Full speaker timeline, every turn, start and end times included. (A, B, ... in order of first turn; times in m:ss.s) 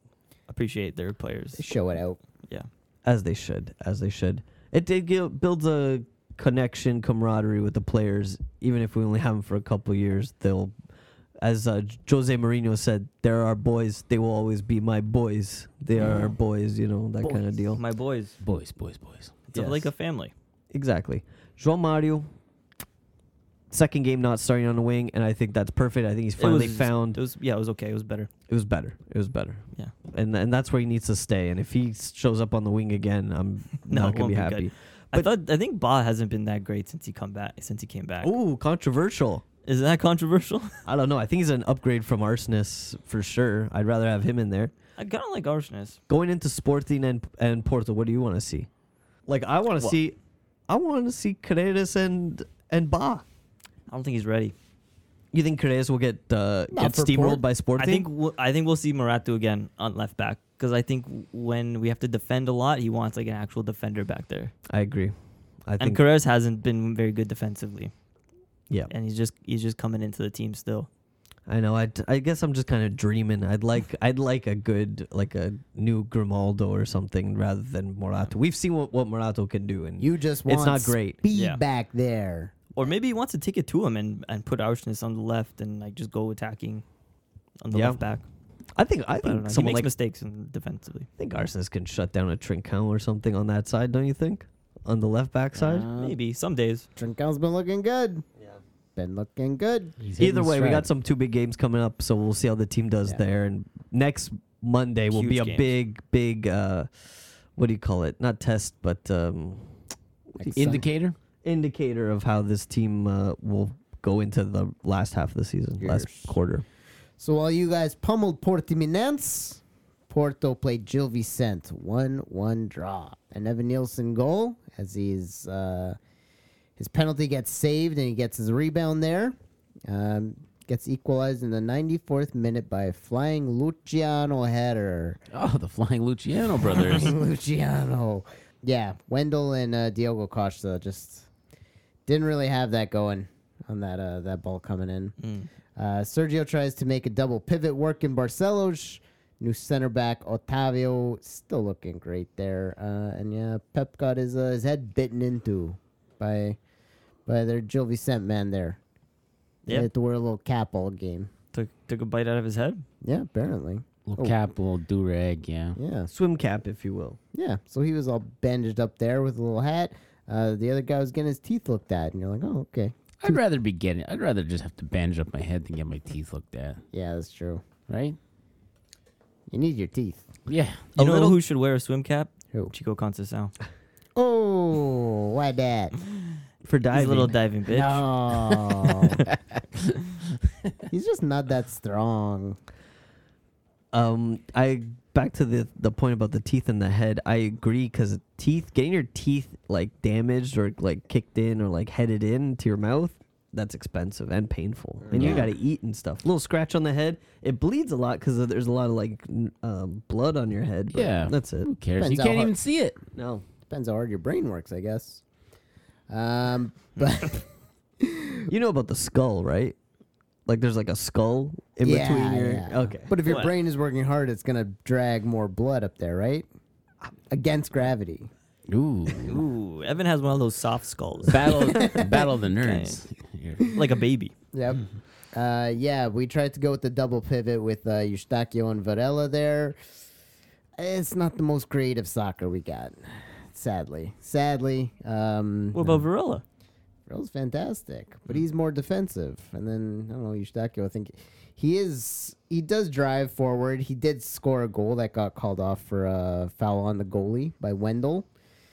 0:00.5-0:01.6 A
0:01.6-0:02.2 B
0:03.0-0:10.7 C
0:11.4-0:17.8 C
0:16.0-0:16.3 A
0:17.2-0:18.4 A
0:18.4-0:19.3 D
0:19.5-0:20.3 A
0:19.5-0:19.9 C
0:20.7-0:22.3 C
0:23.7-0:27.2 C
0:26.4-0:28.3 A
0:28.5-0:35.3 C
0:33.9-0:38.3 A
0:38.2-0:39.4 C
0:39.6-0:40.8 A
0:40.8-0:44.7 C
0:45.0-0:46.0 A
0:46.1-0:48.7 C
0:49.3-0:50.1 C
0:50.7-0:53.2 C
0:53.9-0:54.5 A
0:55.3-0:58.1 C
0:56.7-0:57.4 B
0:57.8-1:04.5 A
1:04.7-1:05.1 C
1:05.6-1:06.0 C
1:05.8-1:07.9 A
1:08.9-1:10.9 A
1:11.5-1:21.2 C
1:20.0-1:22.5 B
1:21.3-1:21.6 A
1:22.8-1:26.8 A
1:27.6-1:28.2 A
1:27.7-1:28.0 C
1:28.8-1:29.9 C
1:29.2-1:31.1 A
1:31.2-1:35.9 C
1:35.5-1:36.2 D
1:35.9-1:36.9 A
1:37.0-1:38.2 B
1:39.0-1:39.9 B
1:40.0-1:40.9 D
1:40.2-1:49.7 C
1:45.1-1:45.7 A
1:50.4-1:50.8 C
1:50.4-1:50.8 B
1:50.6-1:51.2 D
1:51.4-1:56.6 C
1:55.8-1:56.3 B
1:57.2-2:06.0 B
2:06.8-2:09.4 B
2:09.9-2:15.2 B
2:15.3-2:17.2 D
2:16.6-2:21.3 B
2:22.1-2:25.1 B
2:25.2-2:25.5 A
2:25.8-2:36.6 B
2:37.2-2:38.8 B
2:39.7-2:41.3 B
2:41.5-2:42.8 A
2:43.0-2:44.4 B
2:44.1-2:45.8 D
2:45.7-2:46.1 B
2:46.1-2:47.2 C
2:47.3-2:53.0 B
2:53.2-2:56.8 D
2:56.9-2:57.6 B
2:57.9-2:58.2 D
2:59.5-3:00.3 B
3:00.5-3:00.9 D
3:01.0-3:01.4 C
3:01.0-3:03.5 A
3:04.2-3:05.9 B
3:06.6-3:07.3 C
3:06.9-3:08.0 A
3:07.7-3:09.2 B
3:09.6-3:10.0 D
3:10.9-3:12.6 B
3:13.9-3:31.7 C
3:25.1-3:25.5 B
3:25.1-3:25.5 D
3:30.9-3:33.0 D
3:32.0-3:32.5 B
3:33.1-3:33.4 C
3:33.7-3:35.2 B
3:36.1-3:37.4 B
3:38.0-3:38.5 B
3:38.5-3:39.7 C
3:40.5-3:43.1 C
3:41.8-3:46.4 B
3:43.2-3:43.5 A
3:47.2-3:48.3 B
3:48.7-3:49.4 D
3:49.2-3:52.0 A
3:51.3-3:53.7 D
3:51.7-3:52.2 B
3:52.6-3:53.0 A
3:53.7-3:54.3 A
3:54.5-3:59.8 B
4:00.8-4:06.0 B
4:05.7-4:06.4 A
4:07.1-4:18.3 B